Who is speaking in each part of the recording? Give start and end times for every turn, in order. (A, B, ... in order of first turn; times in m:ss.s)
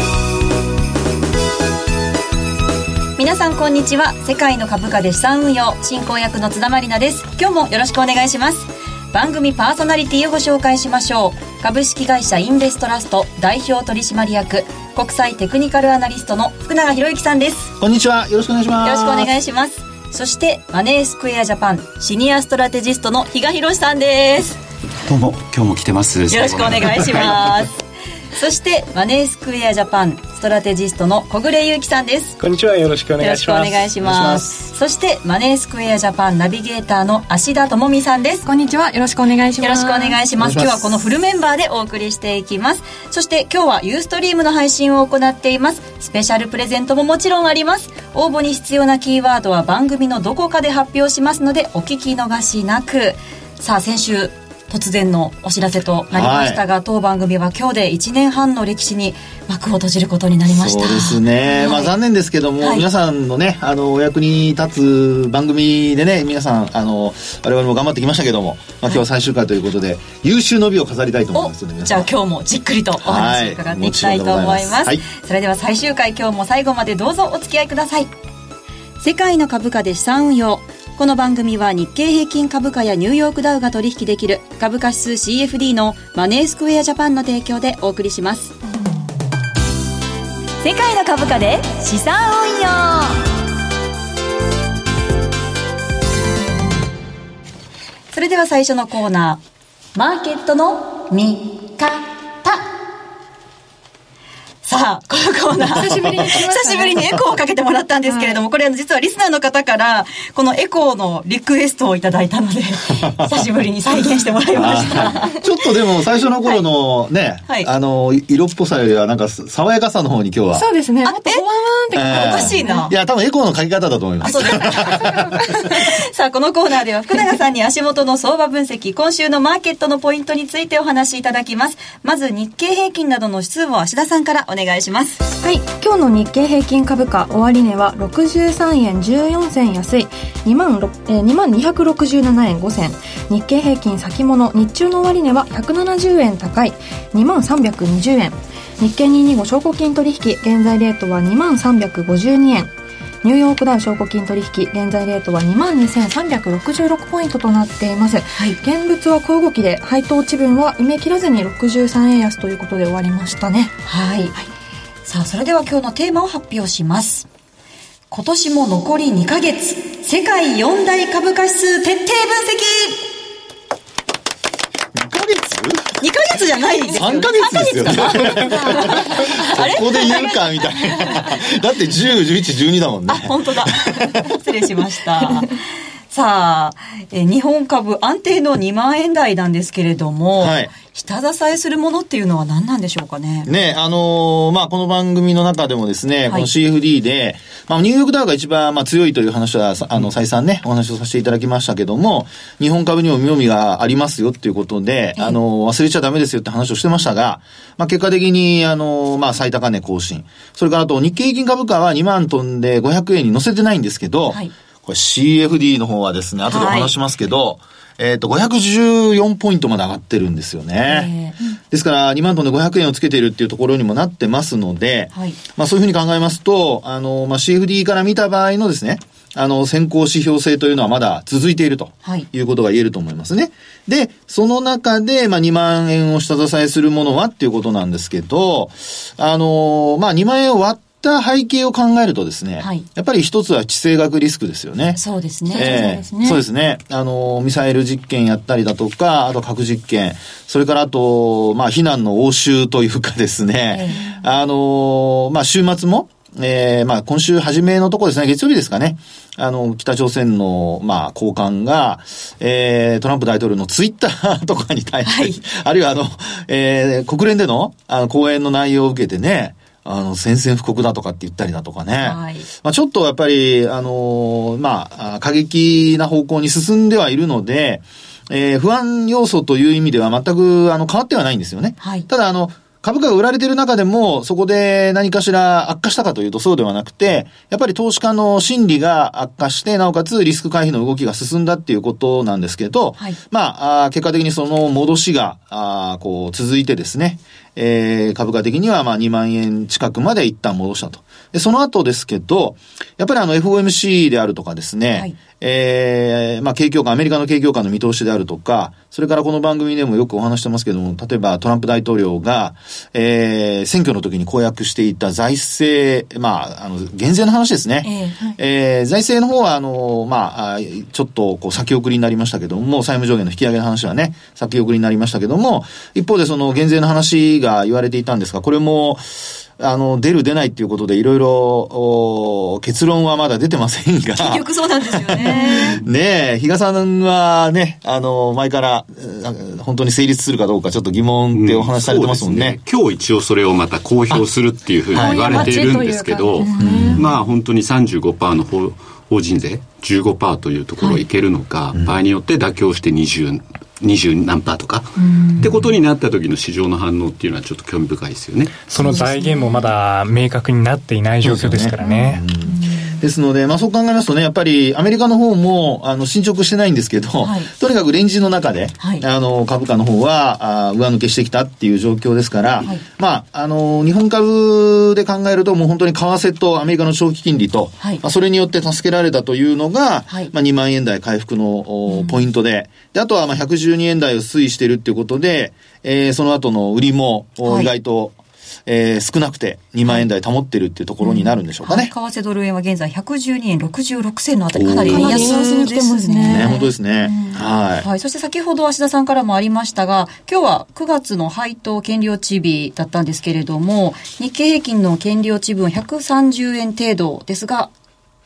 0:03.2-0:17.7 A
0:17.8-0:19.3 B
0:18.8-0:24.6 A
0:25.1-0:27.3 C
0:26.3-0:27.8 A
0:28.3-0:32.4 A
0:32.4-0:33.9 D
0:33.2-0:38.4 A
0:34.0-0:34.6 B
0:38.4-0:40.2 E
0:39.6-1:02.0 A
0:40.4-0:41.0 B
0:56.1-0:56.6 B
1:00.5-1:12.1 B
1:11.3-1:18.1 A
1:13.0-1:15.0 B
1:19.0-1:28.5 A
1:30.6-1:33.2 A
1:38.1-1:39.4 A
1:40.0-1:42.6 A
1:44.6-1:55.5 A
1:45.6-1:47.2 E
1:48.1-1:48.4 E
1:53.0-1:53.3 B
1:54.5-2:00.7 B
2:00.5-2:02.9 E
2:01.0-2:01.4 A
2:01.9-2:05.2 B
2:01.9-2:02.9 A
2:04.2-2:15.2 A
2:04.3-2:05.9 E
2:15.4-2:32.7 E
2:33.2-2:43.7 E
2:43.8-2:44.3 A
2:45.0-2:47.2 A
2:48.1-2:53.1 A
2:54.9-2:56.0 B
2:56.0-3:01.4 A
2:56.9-3:04.3 B
3:03.1-3:13.5 A
3:10.4-3:10.7 B
3:13.5-3:41.1 B
3:36.4-3:36.9 A
3:40.8-3:41.4 A
3:41.7-4:05.0 B
4:02.6-4:02.8 A
4:05.0-4:05.8 A
4:05.5-4:06.4 E
4:05.5-5:42.6 B
4:13.7-4:14.0 A
4:14.0-4:14.2 E
4:25.0-4:25.4 A
4:32.0-4:32.5 A
4:41.8-4:42.1 A
5:17.8-5:18.4 A
5:34.2-5:35.8 A
5:41.3-5:58.6 C
5:44.9-5:45.5 B
5:44.9-5:47.1 E
5:46.6-5:47.1 B
5:55.0-5:55.4 A
5:58.7-6:02.2 D
5:58.8-5:59.7 A
6:01.2-6:31.9 B
6:01.8-6:03.0 A
6:07.2-6:07.5 A
6:21.9-6:22.2 A
6:27.4-6:27.7 A
6:31.0-6:47.7 A
6:34.5-6:35.4 B
6:34.9-6:36.6 E
6:36.2-6:37.9 B